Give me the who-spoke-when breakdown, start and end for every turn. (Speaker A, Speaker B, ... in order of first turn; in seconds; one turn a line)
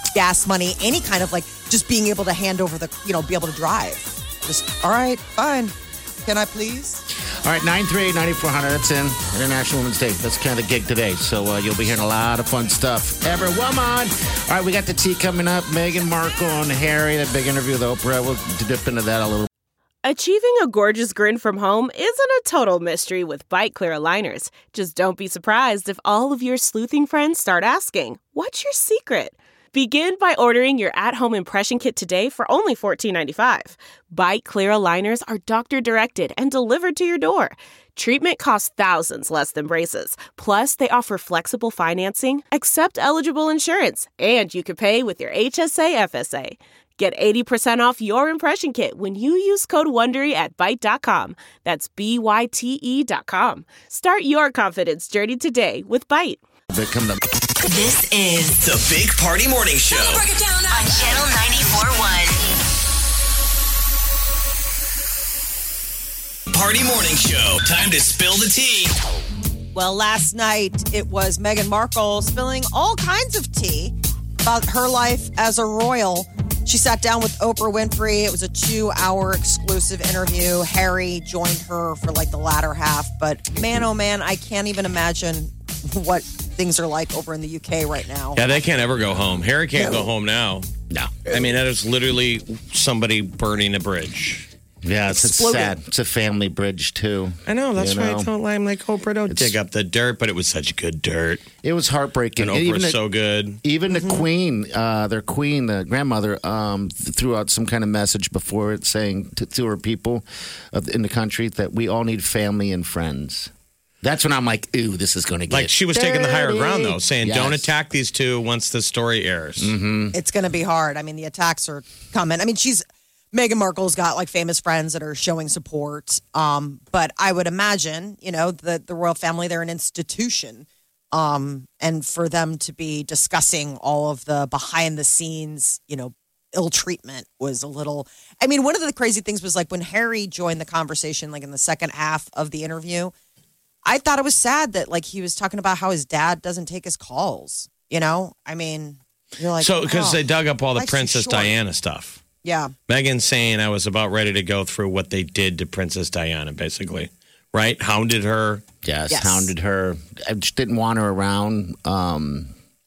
Speaker A: 0.1-5.7
Speaker A: 6.2-7.0
Speaker B: 7.4-19.5
Speaker C: 20.0-56.4
Speaker B: 56.7-57.2
Speaker D: 57.7-58.6
Speaker E: 58.6-61.2
Speaker D: 60.7-62.4
Speaker E: 66.5-68.9
Speaker A: 69.8-88.6
Speaker F: 88.4-90.7
Speaker A: 89.8-90.1
Speaker B: 90.9-91.2
Speaker F: 91.3-94.5
Speaker B: 94.8-98.3
Speaker A: 95.1-95.8
Speaker F: 97.5-101.5
Speaker B: 99.3-99.6
Speaker B: 101.6-103.0
Speaker F: 102.4-103.6
Speaker B: 103.6-113.5
Speaker A: 103.9-104.2
Speaker B: 114.0-117.7
Speaker F: 115.5-119.7
Speaker B: 119.6-120.2
Speaker A: 120.1-143.1
Speaker A: 143.8-150.2
Speaker F: 149.6-152.2
Speaker A: 150.8-151.6
Speaker A: 152.4-152.7
Speaker F: 152.9-158.6
Speaker B: 158.8-162.5
Speaker A: 159.1-159.5